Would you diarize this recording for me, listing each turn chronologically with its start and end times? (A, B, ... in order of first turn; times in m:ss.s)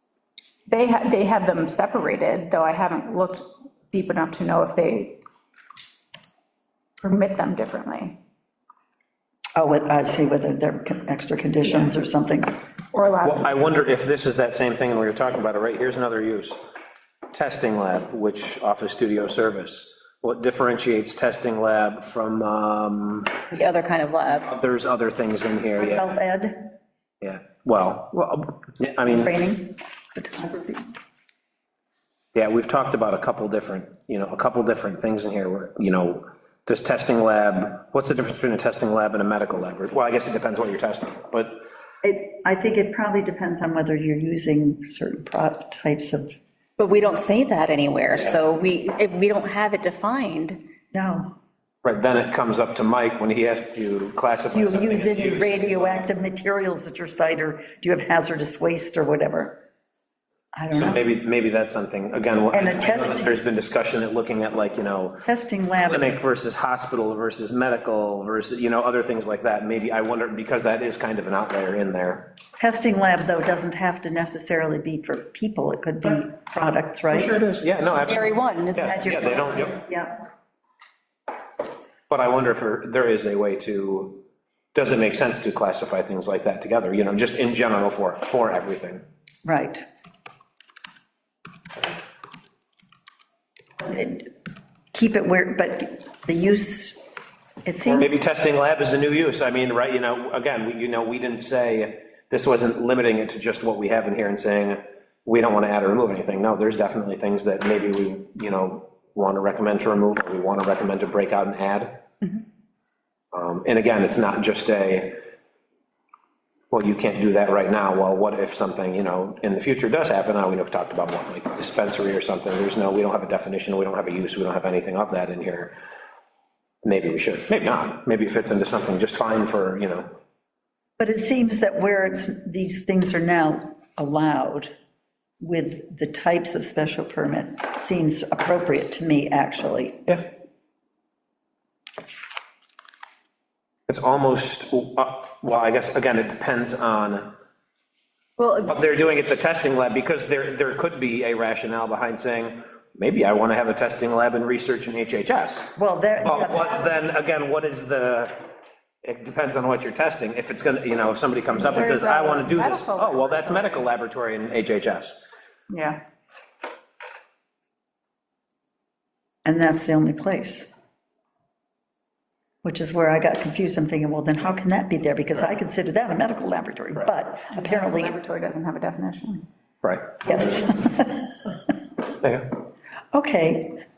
0:00.7-0:05.2 A
0:07.0-0:08.2 A
0:09.6-0:12.6 B
0:12.9-0:13.7 A
0:13.2-0:16.6 C
0:17.3-0:23.4 C
0:23.5-0:24.5 D
0:24.5-0:26.1 C
0:25.8-0:26.7 B
0:27.2-0:29.3 C
0:29.0-0:30.9 B
0:32.3-0:41.6 C
0:42.0-0:46.3 B
0:46.8-0:50.6 D
0:50.9-0:51.4 B
0:51.8-0:56.1 C
0:54.5-0:59.6 B
1:00.5-1:01.0 B
1:00.7-1:05.3 C
1:02.5-1:03.4 B
1:05.2-1:06.2 B
1:05.8-1:12.3 C
1:12.6-1:17.4 B
1:17.1-1:19.8 C
1:18.0-1:19.3 D
1:18.8-1:20.2 B
1:22.1-1:24.2 C
1:24.8-1:29.0 C
1:29.4-1:29.8 B
1:33.8-1:34.3 B
1:34.9-1:38.2 B
1:37.8-1:52.0 C
1:53.3-1:55.2 C
1:56.7-2:05.7 C
2:06.8-2:10.2 C
2:11.0-2:14.7 B
2:15.4-2:20.1 B
2:23.9-2:27.4 C
2:28.4-2:29.1 D
2:28.7-2:38.4 C
2:35.8-2:36.9 B
2:39.0-2:45.3 C
2:41.6-2:43.9 A
2:45.7-2:46.0 A
2:49.4-2:50.7 B
2:52.6-2:58.2 B
2:57.5-2:59.5 A
2:59.8-3:00.2 C
3:00.2-3:01.5 B
3:02.2-3:02.5 C
3:03.1-3:03.8 B